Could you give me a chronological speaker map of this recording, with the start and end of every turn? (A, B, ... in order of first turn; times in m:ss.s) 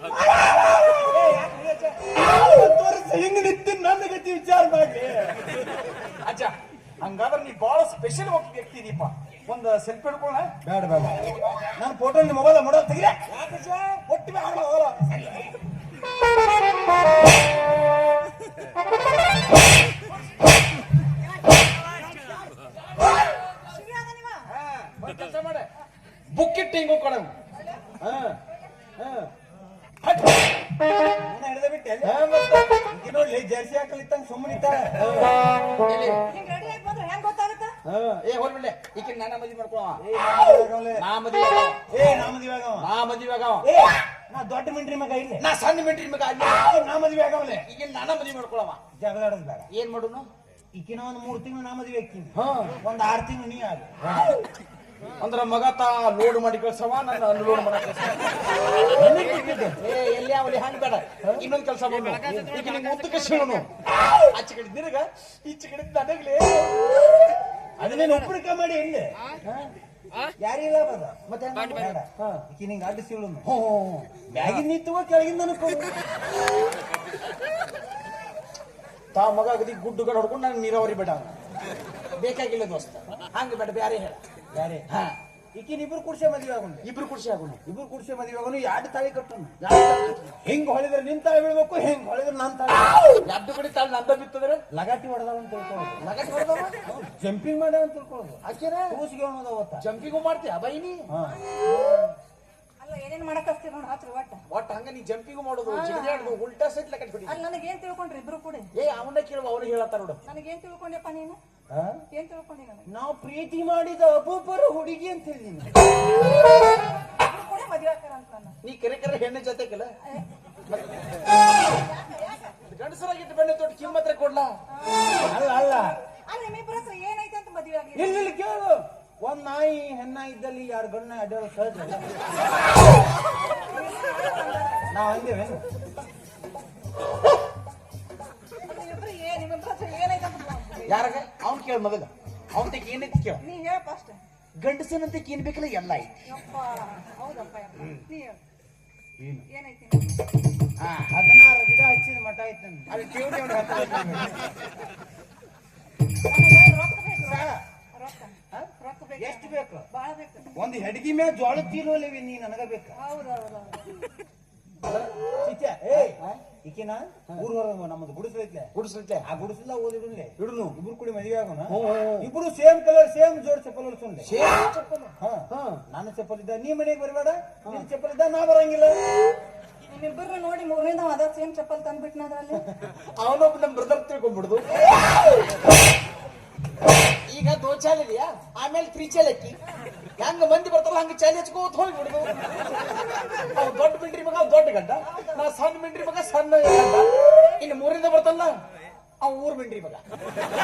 0:00.1-0:01.3 A
0:01.0-0:02.1 B
0:02.1-0:05.5 A
0:06.2-0:10.5 B
0:10.6-0:13.2 A
0:13.3-0:14.1 B
0:14.1-0:15.3 A
0:15.0-0:15.5 B
0:23.6-0:24.5 C
0:24.5-0:25.7 B
0:26.3-0:28.4 B
0:29.0-0:29.3 B
0:30.0-0:30.5 B
0:31.2-0:32.2 A
0:32.0-0:32.8 B
0:32.9-0:35.2 A
0:35.0-0:36.3 B
0:36.3-0:37.8 C
0:37.8-0:40.0 B
0:40.0-0:41.0 A
0:41.0-0:41.9 B
0:41.9-0:42.9 A
0:42.8-0:43.7 B
0:43.6-0:45.5 A
0:45.4-0:46.9 B
0:46.6-0:47.7 A
0:47.4-0:48.8 B
0:48.9-0:49.7 A
0:49.7-0:50.3 B
0:50.7-0:54.4 A
0:52.4-0:52.8 B
0:55.2-0:58.4 B
0:58.9-0:59.8 A
0:59.8-1:07.2 B
1:07.8-1:09.1 A
1:09.4-1:09.7 B
1:10.4-1:13.5 A
1:11.3-1:12.4 B
1:13.4-1:14.6 B
1:14.3-1:16.0 A
1:19.1-1:21.4 B
1:22.1-1:24.2 B
1:24.5-1:24.8 A
1:24.9-1:25.2 B
1:25.6-1:26.9 A
1:26.8-1:27.6 B
1:27.7-1:29.6 A
1:29.6-1:30.4 B
1:30.4-1:33.1 A
1:33.2-1:34.6 B
1:34.7-1:36.0 A
1:36.0-1:36.8 B
1:36.9-1:39.9 A
1:38.4-1:39.0 B
1:39.8-1:41.1 B
1:41.1-1:41.4 A
1:42.8-1:44.4 C
1:44.5-1:47.4 B
1:45.7-1:46.4 C
1:47.3-1:48.7 C
1:48.7-1:50.2 B
1:50.3-1:51.4 C
1:51.7-1:52.0 A
1:52.1-1:52.9 C
1:52.9-1:55.8 A
1:56.6-1:58.6 C
1:58.6-2:00.0 B
2:00.7-2:01.1 B
2:01.8-2:02.5 C
2:02.7-2:04.6 B
2:04.7-2:08.4 C
2:05.2-2:06.0 A
2:08.0-2:12.0 A
2:13.1-2:14.9 C
2:14.9-2:15.6 A
2:18.7-2:21.2 C
2:20.9-2:23.4 B
2:23.4-2:24.2 C
2:24.6-2:26.2 B
2:26.3-2:28.4 C
2:29.2-2:29.5 A
2:29.5-2:30.3 C
2:30.8-2:31.1 B
2:31.1-2:32.9 A
2:32.9-2:34.6 B
2:36.2-2:40.8 C
2:37.2-2:37.6 A
2:38.5-2:39.9 A
2:40.6-2:43.0 A
2:43.0-2:44.0 C
2:44.8-2:45.1 B
2:45.4-2:48.7 A
2:45.9-2:46.4 B
2:48.8-2:49.3 B
2:49.2-2:54.3 A
2:50.4-2:50.8 B
2:51.7-2:52.3 B
2:54.2-2:55.8 B
2:55.2-2:59.0 A
2:59.9-3:02.7 C
3:02.7-3:04.9 B
3:07.3-3:09.6 B
3:10.2-3:12.6 B
3:13.4-3:18.6 B
3:19.2-3:20.0 B